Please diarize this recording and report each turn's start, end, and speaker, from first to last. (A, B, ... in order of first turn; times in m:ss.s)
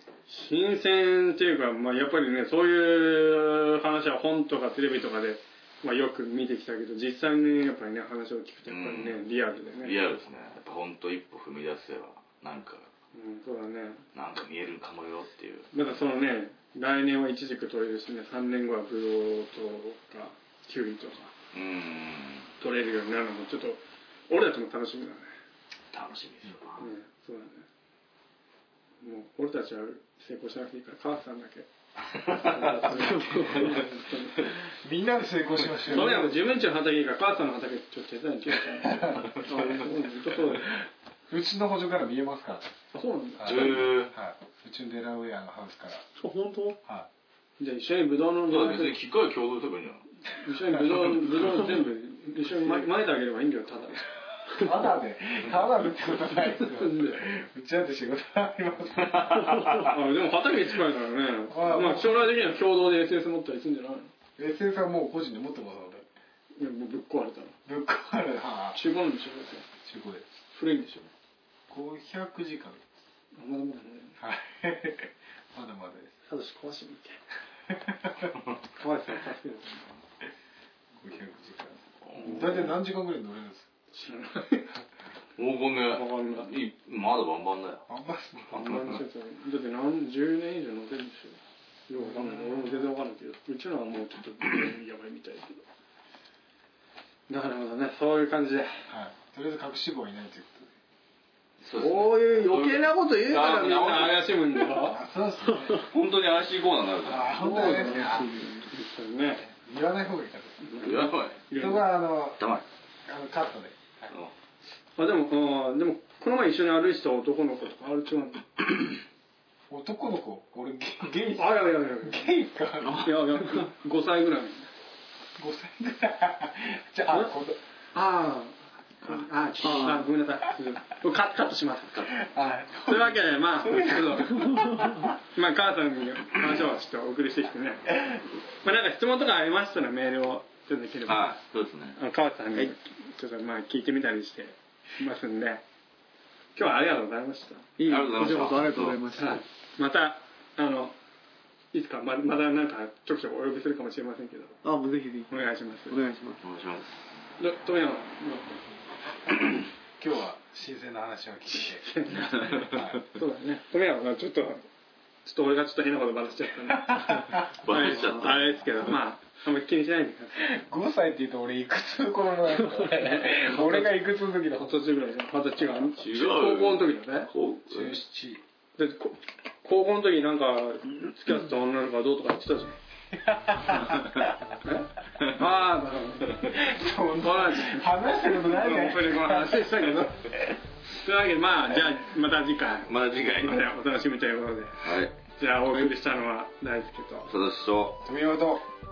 0:00.3-0:10.0 A
0:08.7-0:12.9 B
0:13.1-0:14.0 A
0:14.1-0:15.7 B
0:15.7-0:21.3 A
0:21.5-0:22.5 B
0:22.6-0:25.2 A
0:25.9-0:26.8 B
0:26.8-0:27.6 A
0:29.0-0:31.7 A
0:32.1-0:34.0 B
0:32.4-0:34.6 A
0:32.9-0:33.9 C
0:34.6-0:36.5 D
0:35.8-0:40.8 A
0:38.8-0:39.3 D
0:39.3-0:39.8 B
0:41.3-0:42.7 D
0:42.9-0:43.9 A
0:43.4-0:46.0 D
0:43.4-0:44.1 B
0:46.2-0:46.8 C
0:47.6-0:49.0 A
0:48.5-0:50.0 B
0:50.4-0:54.7 A
0:54.5-0:59.6 D
0:56.3-0:57.3 A
0:58.9-1:00.0 B
0:59.7-1:04.1 A
1:01.5-1:02.4 D
1:04.4-1:06.1 D
1:06.6-1:07.6 A
1:07.6-1:08.8 D
1:08.7-1:09.7 A
1:09.8-1:10.2 D
1:10.5-1:11.1 A
1:11.7-1:12.8 D
1:13.3-1:14.2 A
1:14.2-1:16.2 D
1:16.2-1:17.2 A
1:17.7-1:18.3 D
1:18.8-1:19.9 A
1:21.0-1:23.7 D
1:22.0-1:22.7 B
1:22.2-1:22.7 A
1:23.9-1:24.7 A
1:25.4-1:27.8 B
1:25.9-1:26.5 A
1:27.9-1:28.8 D
1:28.5-1:29.0 B
1:28.5-1:35.6 A
1:37.3-1:38.8 A
1:38.9-1:40.7 D
1:41.6-1:44.5 B
1:41.8-1:45.0 A
1:44.8-1:45.9 D
1:45.7-1:47.6 B
1:47.0-1:48.4 D
1:47.4-1:48.8 C
1:47.4-1:49.4 A
1:49.3-1:50.9 D
1:50.7-1:51.8 A
1:50.7-1:51.4 B
1:51.6-1:52.4 D
1:52.4-1:52.6 B
1:53.0-1:54.1 D
1:55.0-1:59.0 A
1:59.7-2:03.1 D
2:01.3-2:02.3 A
2:02.8-2:03.6 C
2:02.9-2:04.7 A
2:05.4-2:07.6 D
2:07.9-2:12.1 A
2:09.6-2:10.1 C
2:12.1-2:14.6 D
2:12.8-2:18.0 A
2:14.4-2:15.1 C
2:18.6-2:21.3 A
2:21.0-2:22.0 B
2:22.0-2:25.6 A
2:26.5-2:27.7 A
2:27.8-2:29.4 C
2:27.8-2:29.0 B
2:29.2-2:30.9 A
2:31.7-2:34.6 A
2:34.6-2:36.4 C
2:35.3-2:36.0 A
2:36.4-2:36.9 B
2:37.4-2:38.6 A
2:40.0-2:41.9 D
2:41.6-2:44.6 A
2:42.1-2:43.0 B
2:42.6-2:43.0 D
2:45.2-2:50.5 A
2:46.7-2:47.9 D
2:47.3-2:48.6 B
2:50.4-2:54.7 D
2:52.7-2:54.0 A
2:54.5-2:57.3 A
2:55.8-2:58.0 B
2:57.7-2:58.4 D
2:58.8-3:02.8 A
3:03.1-3:04.5 D
3:04.6-3:06.5 A
3:05.2-3:05.4 B
3:06.5-3:09.8 D
3:07.2-3:10.3 A
3:11.0-3:17.3 A
3:12.8-3:13.6 B
3:14.8-3:15.1 B
3:17.3-3:18.0 B
3:18.0-3:18.6 D